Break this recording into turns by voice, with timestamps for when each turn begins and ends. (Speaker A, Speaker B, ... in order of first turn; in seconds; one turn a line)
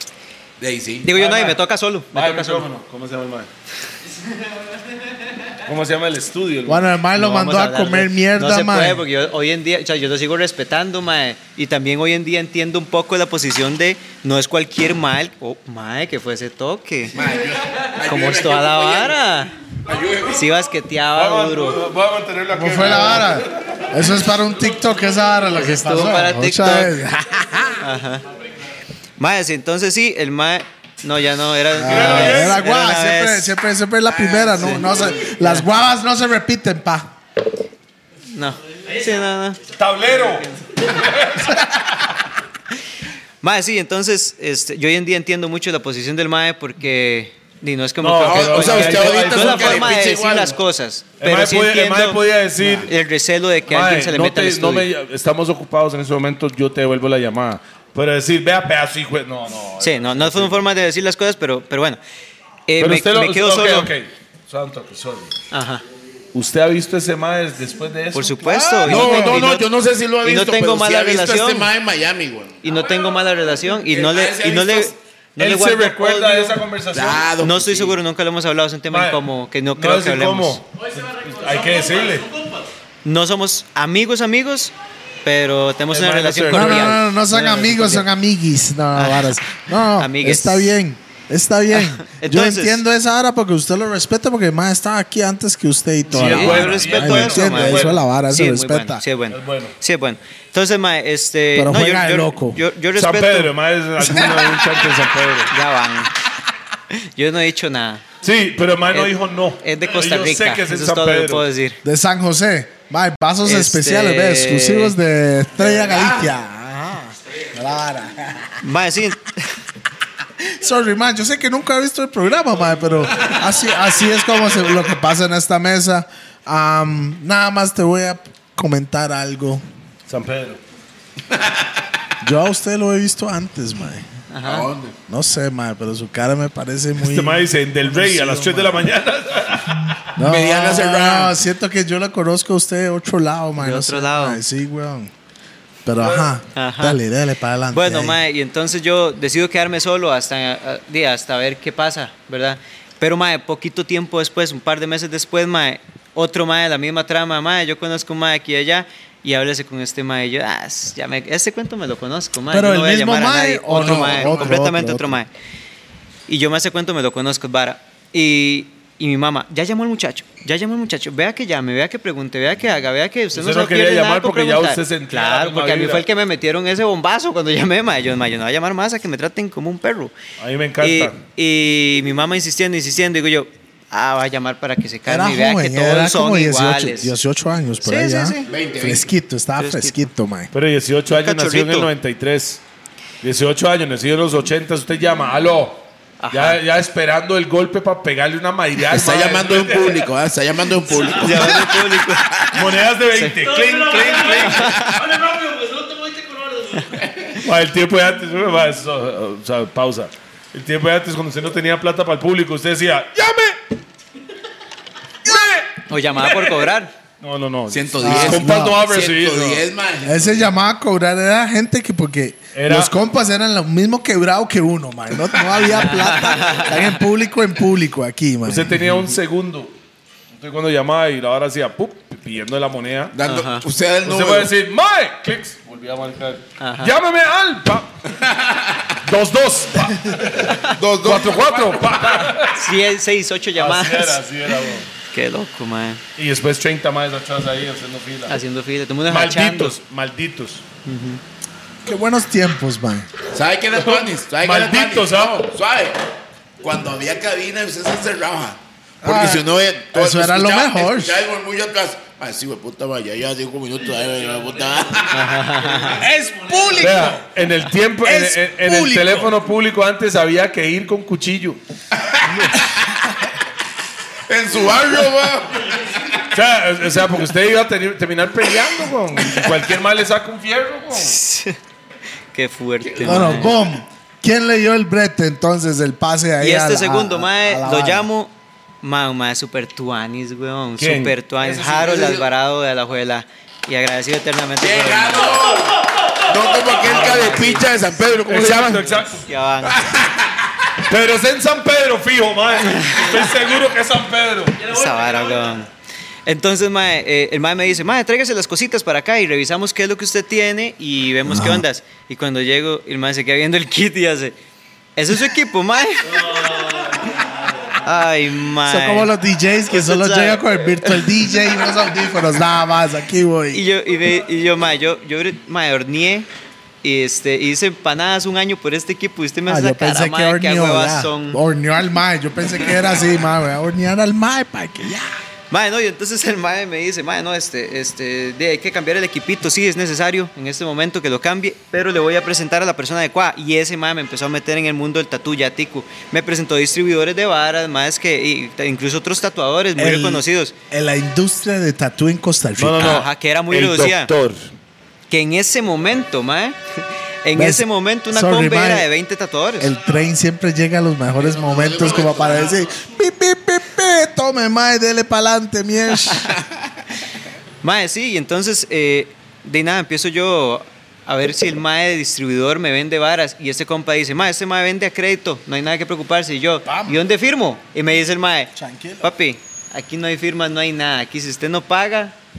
Speaker A: 0.6-1.1
Speaker B: 1.0-2.7
Speaker C: 1.1-1.6
Speaker C: 2.1-3.5
Speaker C: 5.7-6.9
Speaker D: 6.7-9.0
Speaker B: 7.2-17.2
Speaker A: 17.1-19.2
Speaker B: 18.1-19.5
Speaker A: 19.9-20.5
Speaker B: 20.3-21.8
Speaker C: 21.1-23.9
Speaker D: 22.5-27.8
Speaker B: 25.5-27.0
Speaker B: 27.8-28.2
Speaker B: 29.2-33.5
Speaker D: 31.7-37.1
Speaker C: 31.9-32.7
Speaker A: 34.1-35.3
Speaker B: 35.4-35.7
Speaker B: 38.3-39.6
Speaker C: 39.7-41.9
Speaker B: 43.4-52.2
Speaker C: 48.0-50.0
Speaker A: 48.2-50.6
Speaker C: 51.2-52.9
Speaker B: 52.8-54.9
Speaker C: 53.7-60.6
Speaker B: 59.8-62.0
Speaker B: 62.7-63.9
Speaker C: 62.8-65.3
Speaker B: 65.5-65.8
Speaker C: 66.3-69.3
Speaker B: 68.1-69.7
Speaker A: 68.8-72.6
Speaker D: 68.9-69.4
Speaker B: 70.2-71.7
Speaker B: 72.6-76.6
Speaker A: 73.9-75.0
Speaker C: 75.4-77.3
Speaker A: 76.9-78.0
Speaker B: 77.4-80.6
Speaker C: 78.9-79.2
Speaker C: 79.7-82.3
Speaker B: 83.0-84.7
Speaker B: 85.2-88.1
Speaker C: 85.9-87.0
Speaker D: 86.5-99.0
Speaker B: 89.0-90.8
Speaker B: 91.7-92.8
Speaker C: 96.1-98.0
Speaker B: 96.1-103.5
Speaker C: 99.3-99.7
Speaker D: 101.5-102.6
Speaker C: 102.9-105.5
Speaker D: 104.0-104.5
Speaker B: 105.5-106.1
Speaker B: 106.9-108.0
Speaker C: 108.2-111.5
Speaker B: 108.9-111.8
Speaker D: 111.8-118.6
Speaker B: 113.4-115.0
Speaker A: 115.8-116.3
Speaker B: 118.6-119.6
Speaker D: 120.4-129.6
Speaker C: 130.1-130.6
Speaker A: 131.3-131.8
Speaker D: 132.2-134.1
Speaker B: 134.3-134.7
Speaker A: 134.4-135.0
Speaker D: 135.1-138.9
Speaker C: 137.0-140.1
Speaker D: 140.2-145.1
Speaker A: 140.2-141.3
Speaker B: 143.6-144.4
Speaker D: 145.8-148.2
Speaker C: 146.0-146.3
Speaker B: 146.5-147.0
Speaker B: 147.7-165.3
Speaker D: 162.5-165.2
Speaker A: 163.7-164.6
Speaker B: 166.3-180.1
Speaker C: 173.3-176.1
Speaker C: 180.4-181.2
Speaker B: 180.8-187.1
Speaker D: 185.1-190.5
Speaker B: 187.8-188.5
Speaker A: 188.4-189.1
Speaker B: 189.6-190.0
Speaker C: 190.5-192.6
Speaker B: 191.1-191.9
Speaker C: 193.2-200.1
Speaker B: 196.2-196.6
Speaker A: 198.8-201.8
Speaker B: 201.1-202.6
Speaker C: 202.4-204.7
Speaker B: 203.1-203.4
Speaker B: 204.3-205.2
Speaker A: 204.6-205.2
Speaker B: 206.7-207.0
Speaker A: 207.0-207.3
Speaker C: 207.4-213.6
Speaker C: 215.2-216.7
Speaker B: 215.9-216.9
Speaker C: 217.2-219.7
Speaker A: 217.7-220.5
Speaker D: 218.0-218.8
Speaker D: 220.0-228.8
Speaker C: 222.6-222.9
Speaker B: 225.7-226.9
Speaker C: 228.4-229.8
Speaker C: 230.3-233.2
Speaker A: 233.1-234.5
Speaker B: 233.2-233.7
Speaker C: 234.0-237.9
Speaker B: 236.6-236.9
Speaker A: 238.1-238.9
Speaker C: 239.0-242.7
Speaker A: 240.6-242.2
Speaker B: 242.2-244.2
Speaker C: 243.6-244.9
Speaker B: 245.1-246.0
Speaker C: 246.2-248.4
Speaker B: 248.3-249.8
Speaker C: 249.1-250.6
Speaker B: 250.8-251.2
Speaker D: 251.8-253.1
Speaker A: 253.3-256.0
Speaker C: 253.7-255.5
Speaker A: 256.6-265.5
Speaker D: 259.0-261.2
Speaker B: 265.1-266.0
Speaker D: 265.8-267.3
Speaker C: 266.8-271.6
Speaker D: 268.0-269.3
Speaker A: 272.0-272.7
Speaker A: 274.3-276.2
Speaker C: 276.3-281.2
Speaker B: 280.9-281.6
Speaker B: 282.3-283.6
Speaker A: 282.8-283.5
Speaker D: 283.0-288.1
Speaker B: 286.4-295.4
Speaker C: 290.8-291.1
Speaker A: 291.4-292.3
Speaker A: 294.6-298.9
Speaker B: 296.8-297.8
Speaker C: 298.3-299.2
Speaker B: 299.2-299.9
Speaker A: 299.6-300.4
Speaker C: 300.9-304.8
Speaker B: 302.8-303.2
Speaker B: 304.7-305.7
Speaker B: 306.3-314.4
Speaker D: 311.3-311.6
Speaker B: 315.0-317.1
Speaker B: 317.7-319.1
Speaker D: 318.6-323.6
Speaker B: 319.7-321.4
Speaker B: 323.5-326.3
Speaker B: 326.8-331.4
Speaker D: 329.5-335.2
Speaker B: 335.5-350.5
Speaker D: 349.8-353.0
Speaker C: 352.6-354.4
Speaker B: 352.8-354.1
Speaker B: 355.1-359.7
Speaker D: 357.4-358.9
Speaker D: 359.6-366.3
Speaker A: 361.2-362.6
Speaker A: 366.2-366.7
Speaker B: 367.6-382.1
Speaker D: 376.7-377.0
Speaker D: 378.6-379.1